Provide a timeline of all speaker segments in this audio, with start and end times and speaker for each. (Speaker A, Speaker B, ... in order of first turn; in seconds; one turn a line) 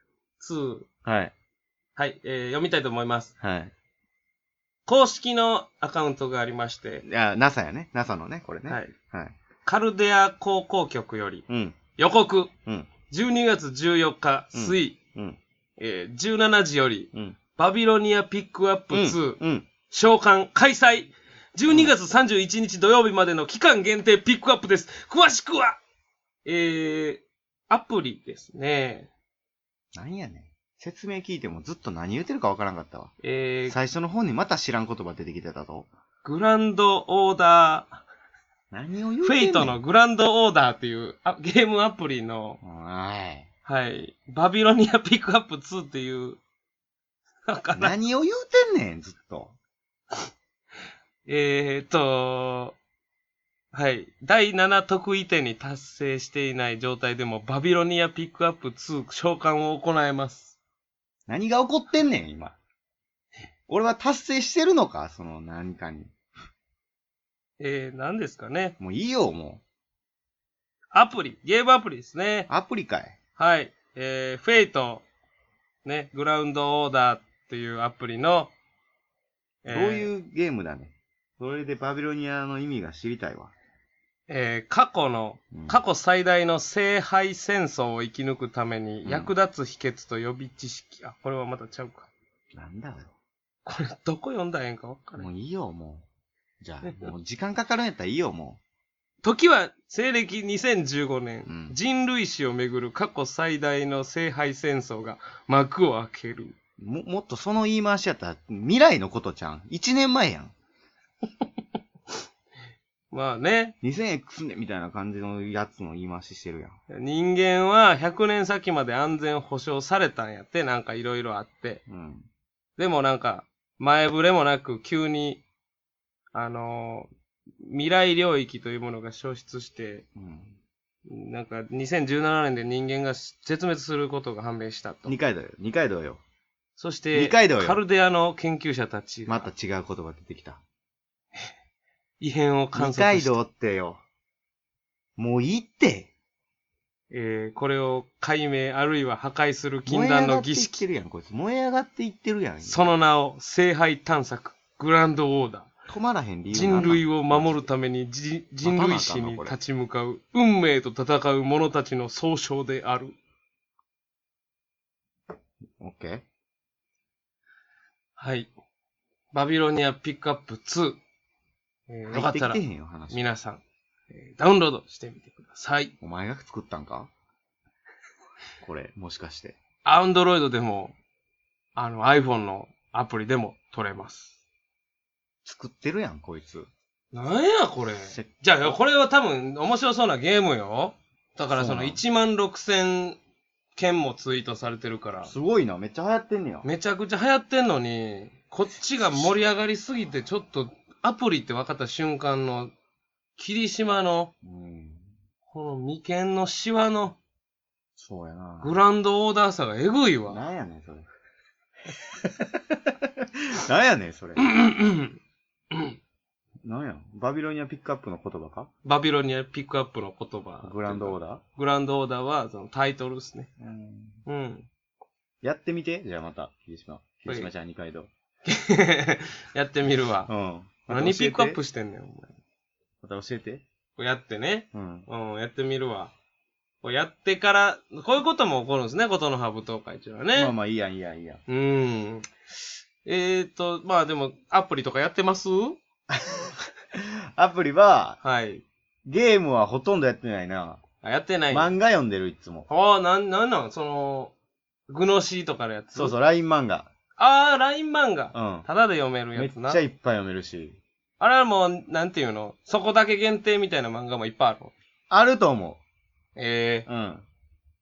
Speaker A: 0.4-0.9
Speaker B: 1.0-1.3
Speaker A: 1.9-3.3
Speaker B: 3.4-3.7
Speaker A: 4.8-7.0
Speaker B: 7.0-9.3
Speaker A: 8.7-8.9
Speaker A: 9.7-11.4
Speaker B: 11.5-11.8
Speaker A: 11.9-12.5
Speaker A: 13.1-15.0
Speaker B: 14.5-15.4
Speaker A: 15.8-25.8
Speaker B: 18.9-19.7
Speaker B: 21.7-21.9
Speaker A: 26.4-29.1
Speaker B: 29.9-33.1
Speaker A: 33.2-33.8
Speaker B: 33.7-35.9
Speaker A: 36.2-38.0
Speaker B: 38.7-39.8
Speaker A: 39.2-42.6
Speaker B: 42.6-43.5
Speaker A: 43.6-46.4
Speaker A: 47.4-47.9
Speaker B: 47.7-49.5
Speaker A: 51.2-52.8
Speaker A: 53.7-60.5
Speaker B: 61.3-62.5
Speaker B: 63.7-66.1
Speaker A: 67.6-68.7
Speaker B: 68.8-69.6
Speaker A: 70.9-72.5
Speaker B: 72.5-73.2
Speaker A: 73.3-75.0
Speaker A: 75.8-78.5
Speaker A: 79.6-80.1
Speaker B: 79.7-83.5
Speaker A: 84.3-92.1
Speaker B: 85.5-85.8
Speaker B: 89.0-89.3
Speaker B: 92.5-93.1
Speaker A: 93.6-95.3
Speaker B: 95.2-96.0
Speaker B: 96.6-98.6
Speaker A: 99.2-106.5
Speaker B: 101.5-101.8
Speaker B: 106.8-110.5
Speaker A: 113.1-113.7
Speaker B: 113.8-116.8
Speaker A: 116.9-121.8
Speaker B: 121.9-122.3
Speaker A: 122.8-125.4
Speaker A: 126.3-127.1
Speaker A: 127.6-130.0
Speaker B: 130.2-130.5
Speaker A: 131.1-135.2
Speaker B: 135.1-136.2
Speaker A: 136.8-139.5
Speaker B: 137.1-137.8
Speaker B: 139.3-140.6
Speaker A: 142.2-143.4
Speaker B: 142.7-144.0
Speaker B: 145.2-146.1
Speaker A: 147.1-150.8
Speaker B: 149.8-152.9
Speaker A: 152.6-155.7
Speaker B: 155.9-157.7
Speaker A: 156.5-163.1
Speaker B: 158.6-159.6
Speaker B: 165.8-166.2
Speaker A: 168.2-168.5
Speaker A: 169.3-171.0
Speaker A: 171.9-175.9
Speaker B: 172.1-173.2
Speaker B: 176.0-177.1
Speaker B: 178.6-179.6
Speaker A: 179.8-180.9
Speaker A: 181.7-184.3
Speaker B: 185.4-186.7
Speaker A: 187.1-193.2
Speaker B: 188.1-188.8
Speaker B: 191.5-192.0
Speaker A: 193.7-195.3
Speaker B: 195.2-196.7
Speaker A: 196.6-202.7
Speaker A: 203.4-204.3
Speaker B: 204.4-205.1
Speaker A: 205.5-207.2
Speaker B: 208.0-208.8
Speaker A: 208.6-210.4
Speaker B: 210.3-211.1
Speaker B: 212.2-214.5
Speaker A: 214.4-215.2
Speaker A: 215.7-216.0
Speaker B: 216.6-218.7
Speaker A: 218.8-223.5
Speaker B: 220.6-221.4
Speaker B: 223.6-224.2
Speaker A: 224.2-224.7
Speaker B: 225.4-228.1
Speaker A: 228.5-230.3
Speaker B: 230.3-231.6
Speaker A: 230.9-232.4
Speaker B: 233.0-233.6
Speaker A: 233.9-236.1
Speaker B: 234.7-235.1
Speaker A: 236.8-240.5
Speaker B: 240.3-241.4
Speaker A: 241.5-242.3
Speaker A: 243.0-245.8
Speaker B: 246.1-248.2
Speaker A: 248.2-248.6
Speaker B: 249.1-250.8
Speaker A: 251.0-251.7
Speaker B: 251.5-252.7
Speaker A: 252.7-254.3
Speaker A: 254.9-256.1
Speaker B: 255.9-256.9
Speaker A: 257.2-259.8
Speaker B: 258.3-258.7
Speaker B: 259.3-260.8
Speaker A: 261.2-264.7
Speaker B: 265.1-265.8
Speaker A: 266.4-266.9
Speaker B: 266.9-267.2